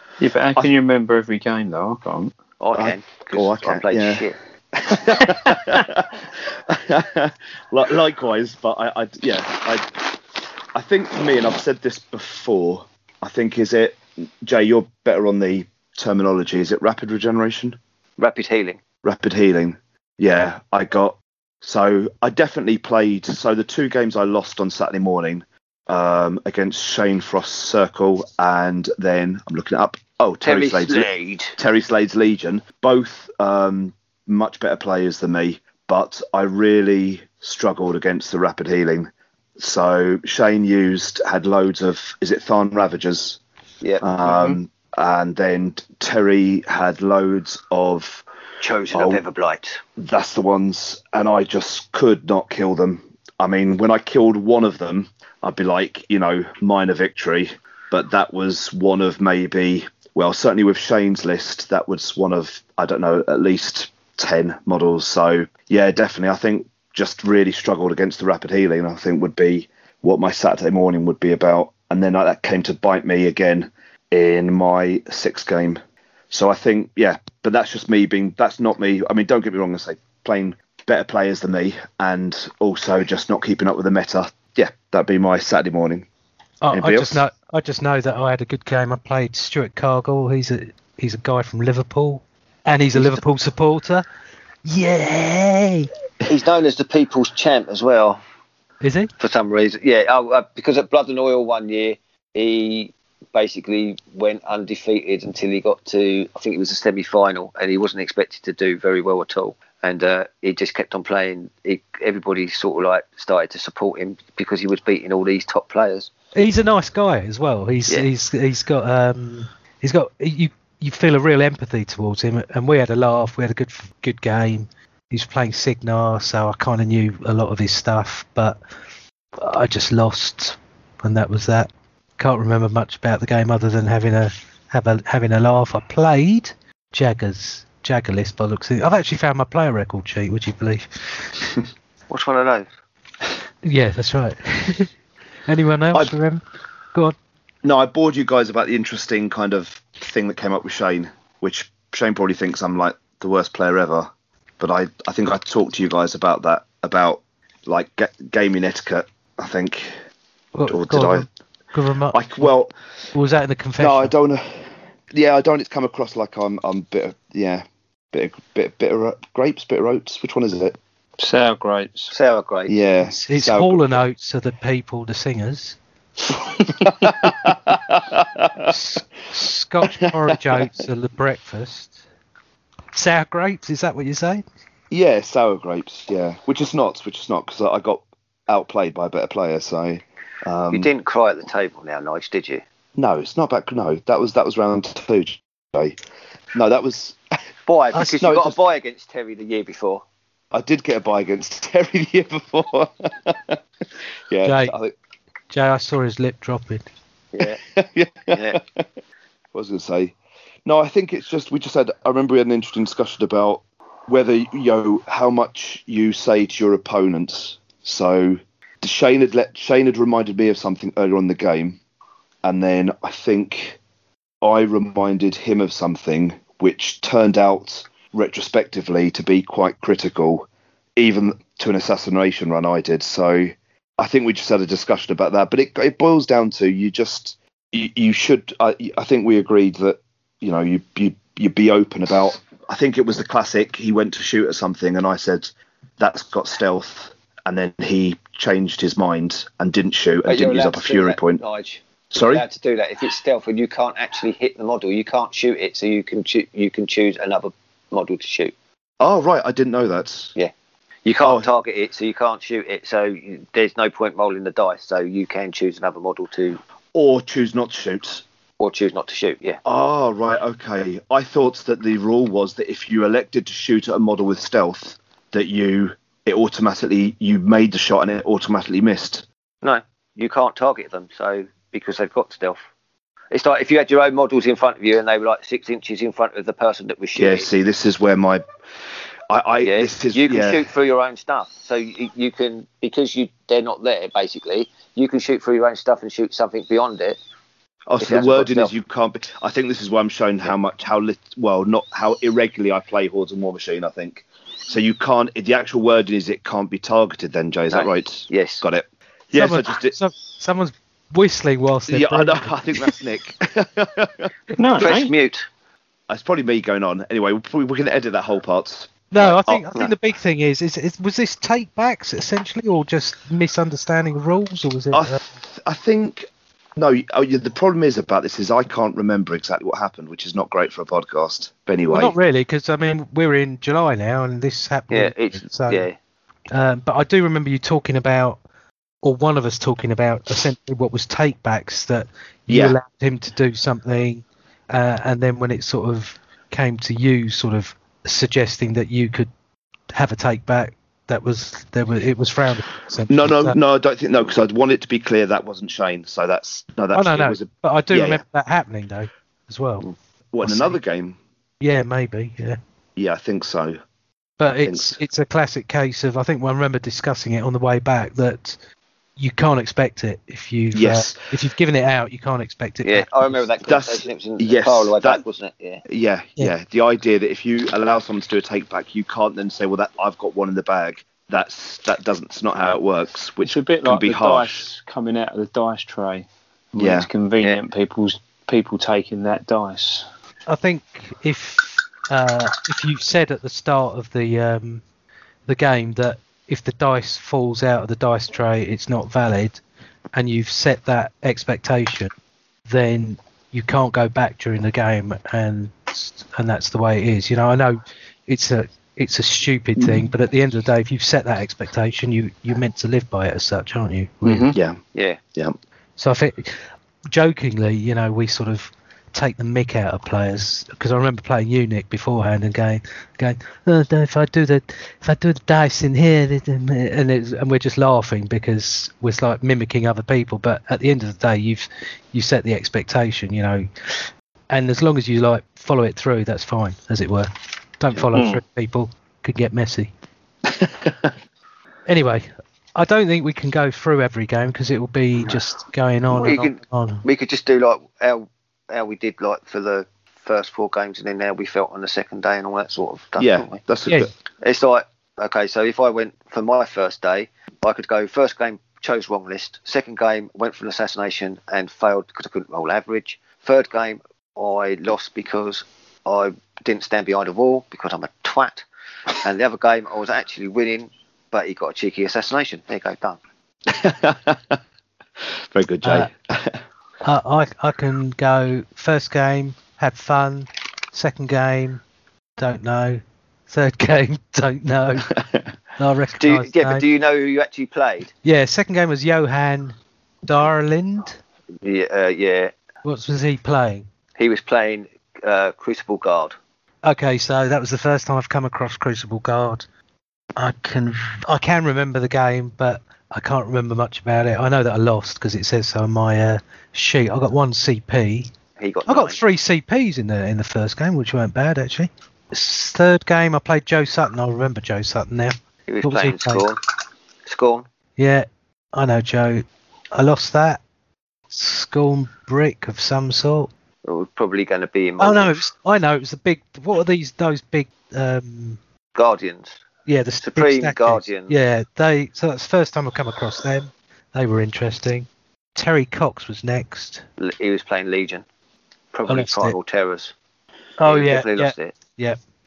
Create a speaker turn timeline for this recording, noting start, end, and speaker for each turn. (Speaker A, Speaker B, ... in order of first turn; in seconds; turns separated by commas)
Speaker A: 0.2-2.4, Speaker B: 2.6-4.4, Speaker C: 2.7-9.9, Speaker C: 10.7-17.8, Speaker B: 18.2-18.8, Speaker C: 19.0-43.4, Speaker B: 30.4-31.6, Speaker B: 43.8-44.5, Speaker C: 44.0-48.2, Speaker B: 48.6-49.8, Speaker C: 48.9-49.2, Speaker C: 50.0-86.1, Speaker D: 86.6-94.0, Speaker C: 86.7-87.2, Speaker D: 94.6-95.9, Speaker B: 96.3-98.2, Speaker D: 98.8-99.1, Speaker B: 99.2-116.1, Speaker D: 116.3-128.6, Speaker D: 129.4-141.3, Speaker B: 142.1-142.7, Speaker D: 143.6-144.9, Speaker D: 145.5-146.4, Speaker C: 147.6-154.1, Speaker C: 154.6-159.9, Speaker D: 160.5-162.5, Speaker C: 160.7-161.3, Speaker C: 162.1-162.7, Speaker D: 163.1-164.1, Speaker C: 163.8-170.8, Speaker A: 171.2-172.1, Speaker B: 172.1-172.7, Speaker C: 172.7-174.0, Speaker D: 173.0-175.8, Speaker C: 176.8-178.7, Speaker D: 178.7-182.0, Speaker C: 180.3-180.6, Speaker D: 182.9-184.4, Speaker C: 184.9-190.9, Speaker B: 190.7-192.6, Speaker C: 192.9-195.9, Speaker C: 196.5-197.2, Speaker B: 197.7-200.0, Speaker C: 198.2-198.6, Speaker C: 200.5-203.6, Speaker C: 204.3-204.9, Speaker D: 204.4-204.7, Speaker D: 205.5-206.9, Speaker B: 207.3-207.6, Speaker C: 207.7-208.8, Speaker B: 208.3-208.6, Speaker C: 209.5-221.8, Speaker C: 222.4-223.8, Speaker C: 224.4-251.4, Speaker B: 250.2-258.5, Speaker C: 252.1-252.4, Speaker C: 259.0-260.3, Speaker B: 261.0-266.6, Speaker C: 261.2-261.5, Speaker C: 266.9-268.2, Speaker B: 268.6-269.6, Speaker C: 269.6-279.2, Speaker B: 279.6-282.7, Speaker B: 283.3-287.5, Speaker C: 287.1-288.4, Speaker C: 289.3-290.6, Speaker B: 289.6-297.2, Speaker C: 297.9-310.0, Speaker B: 298.0-298.7, Speaker B: 307.7-308.6, Speaker D: 309.3-312.9, Speaker C: 311.9-314.9, Speaker A: 314.6-315.1, Speaker B: 314.8-315.4, Speaker C: 316.1-319.7, Speaker D: 319.1-325.2, Speaker C: 324.9-332.1, Speaker D: 331.9-335.9, Speaker B: 334.9-335.9, Speaker D: 336.5-338.4, Speaker D: 339.0-349.3, Speaker C: 342.5-342.8, Speaker D: 349.9-353.6, Speaker C: 353.1-358.2, Speaker D: 356.9-359.9, Speaker C: 360.3-361.2, Speaker D: 360.4-360.8, Speaker D: 361.6-362.6, Speaker C: 362.9-363.8, Speaker D: 364.4-368.6, Speaker C: 364.6-365.0, Speaker D: 369.2-373.5, Speaker C: 370.7-371.2, Speaker B: 372.8-375.8, Speaker C: 373.6-375.2, Speaker C: 375.9-384.6, Speaker A: 383.4-390.1, Speaker C: 386.8-387.1, Speaker D: 390.5-394.8, Speaker D: 395.5-399.6, Speaker D: 400.1-402.1, Speaker D: 402.7-414.5, Speaker A: 414.2-414.6, Speaker C: 414.5-414.8, Speaker B: 414.9-415.2, Speaker D: 416.0-439.9, Speaker A: 438.1-438.4, Speaker C: 440.5-441.1, Speaker D: 441.9-447.0, Speaker B: 446.1-453.6, Speaker C: 453.2-454.1, Speaker B: 454.4-468.6, Speaker B: 469.2-473.2, Speaker C: 473.7-474.6, Speaker C: 475.5-476.6, Speaker D: 475.8-476.1, Speaker D: 477.0-481.8, Speaker D: 482.4-485.1, Speaker C: 485.2-485.4, Speaker D: 485.8-486.8, Speaker B: 486.2-488.1, Speaker D: 488.2-491.2, Speaker B: 491.6-492.5, Speaker D: 492.8-493.9, Speaker B: 494.2-496.4, Speaker D: 496.8-499.6, Speaker D: 500.4-508.3, Speaker B: 508.6-509.2, Speaker D: 508.9-516.4, Speaker B: 515.7-516.6, Speaker B: 517.2-517.6, Speaker D: 518.0-520.6, Speaker D: 521.3-523.5, Speaker B: 523.8-525.4, Speaker D: 525.0-528.6, Speaker B: 528.9-529.6, Speaker D: 529.9-537.0, Speaker B: 530.2-531.3, Speaker B: 537.2-538.2, Speaker B: 538.9-540.1, Speaker D: 539.1-539.6, Speaker D: 540.8-542.2, Speaker B: 540.8-541.7